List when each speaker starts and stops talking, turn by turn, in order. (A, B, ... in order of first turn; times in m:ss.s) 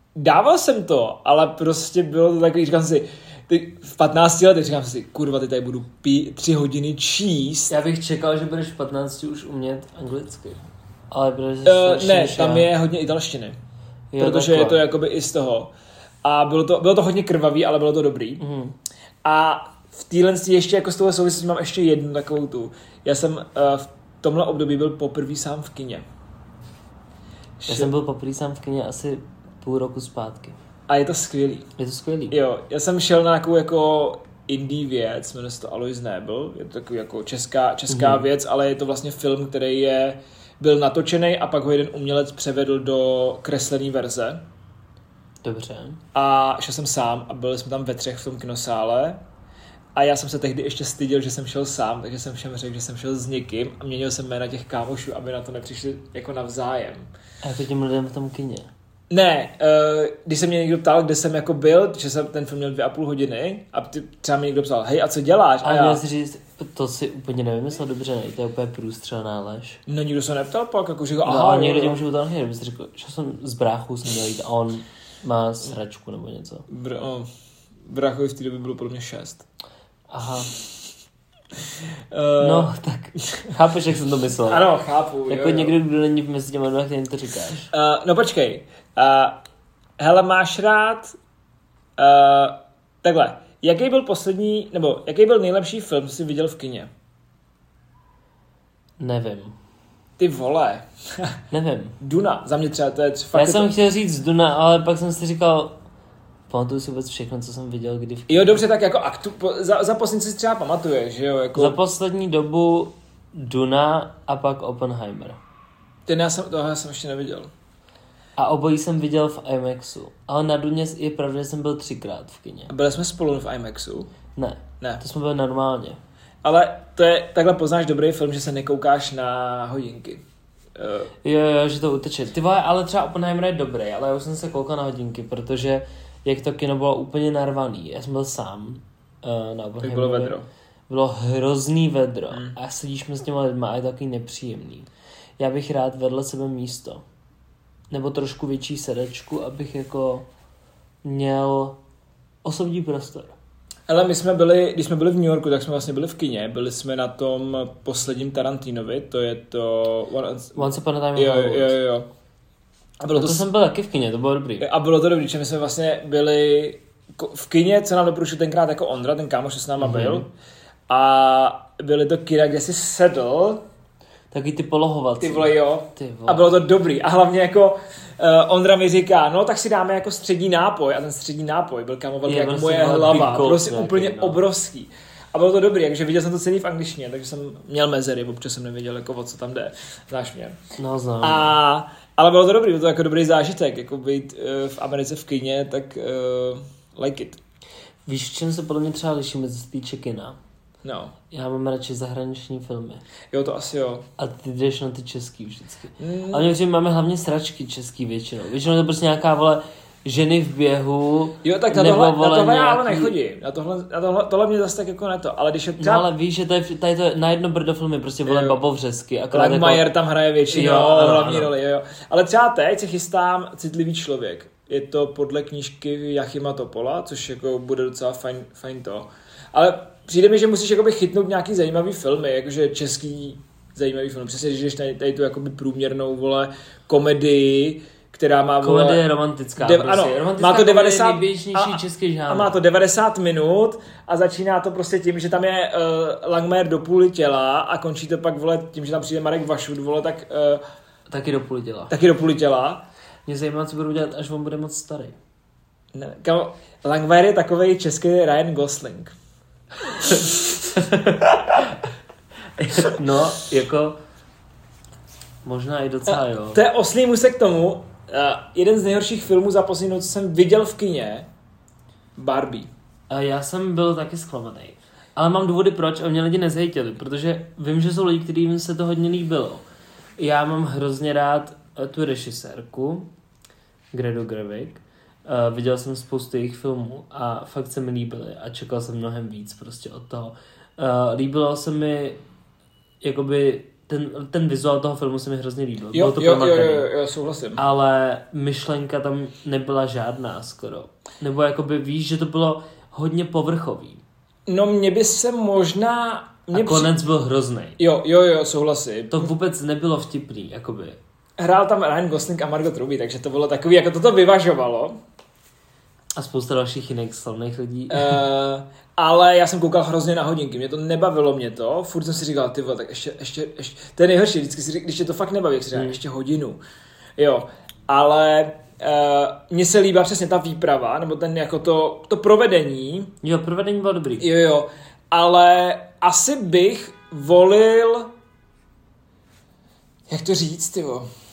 0:00.1-0:07.7 A
0:07.7-0:12.7 B
0:11.6-0:13.6 A
0:14.1-0:14.8 B
0:14.2-0:15.7 A
0:16.2-0:18.4 A
0:18.4-0:18.7 B
0:19.2-0:26.0 A
0:27.6-0:27.9 A
0:27.7-0:30.6 B
0:30.9-0:31.7 A
0:31.8-0:32.4 B
0:32.3-0:44.4 A
0:37.9-0:38.2 B
0:45.4-0:46.0 B
0:46.1-0:49.2 A
0:49.9-0:57.1 A
0:57.4-0:58.7 B
0:59.1-1:06.0 A
1:05.6-1:09.8 B
1:09.9-1:12.0 A
1:11.2-1:16.7 B
1:16.7-1:17.3 A
1:17.8-1:19.4 A
1:20.1-1:20.5 B
1:22.1-1:22.7 A
1:22.4-1:24.6 B
1:24.4-1:25.7 A
1:25.3-1:27.7 B
1:27.7-1:29.4 A
1:30.0-1:31.1 A
1:32.0-1:36.9 A
1:39.0-1:39.6 B
1:40.2-1:41.4 A
1:41.5-1:42.0 B
1:42.0-1:43.7 A
1:43.3-1:45.8 B
1:46.5-1:48.6 B
1:48.3-1:51.8 A
1:51.5-1:55.4 B
1:56.1-1:57.5 A
1:58.4-2:02.7 B
2:02.7-2:04.1 A
2:04.4-2:06.0 B
2:06.4-2:10.2 A
2:10.7-2:11.1 A
2:11.2-2:20.4 B
2:19.8-2:20.4 A
2:20.9-2:24.9 B
2:22.3-2:22.6 A
2:25.4-2:27.0 B
2:27.9-2:30.2 B
2:31.0-2:31.8 B
2:32.4-2:33.3 B
2:33.9-2:42.1 A
2:40.5-2:41.8 B
2:43.0-2:43.4 A
2:43.1-2:44.7 B
2:44.6-2:50.3 A
2:49.8-2:50.2 B
2:50.9-2:53.6 A
2:54.3-2:56.5 B
2:55.2-3:10.6 A
3:02.2-3:04.4 B
3:10.8-3:11.5 B
3:11.2-3:17.4 A
3:18.1-3:20.4 B
3:20.8-3:21.1 A
3:21.3-3:23.0 B
3:23.3-3:24.0 A
3:24.2-3:33.1 B
3:26.0-3:26.5 A
3:31.4-3:36.1 A
3:35.8-3:39.8 B
3:38.2-3:38.6 A
3:39.3-3:59.0 A
3:40.5-3:41.5 B
3:58.6-4:02.6 B
3:59.6-4:10.6 A
4:11.1-4:11.9 B
4:11.9-4:12.8 A
4:13.2-4:15.2 B
4:15.9-4:19.1 A
4:19.9-4:20.6 A
4:20.7-4:21.8 B
4:22.6-4:24.0 B
4:25.4-4:26.6 B
4:26.1-4:31.3 A
4:32.2-4:32.7 A
4:33.1-4:39.6 B
4:40.2-4:43.1 B
4:43.9-4:52.2 B
4:53.0-4:56.9 B
4:55.9-4:57.6 A
4:57.6-5:04.0 B
5:04.5-5:06.9 A
5:06.5-5:07.8 B
5:07.8-5:09.3 A
5:09.1-5:11.0 B
5:11.4-5:15.0 A
5:16.2-5:18.2 B
5:17.9-5:26.6 A
5:25.7-5:26.0 B
5:27.2-5:33.1 A
5:33.2-5:34.3 B
5:34.2-5:38.1 A
5:40.1-5:41.1 A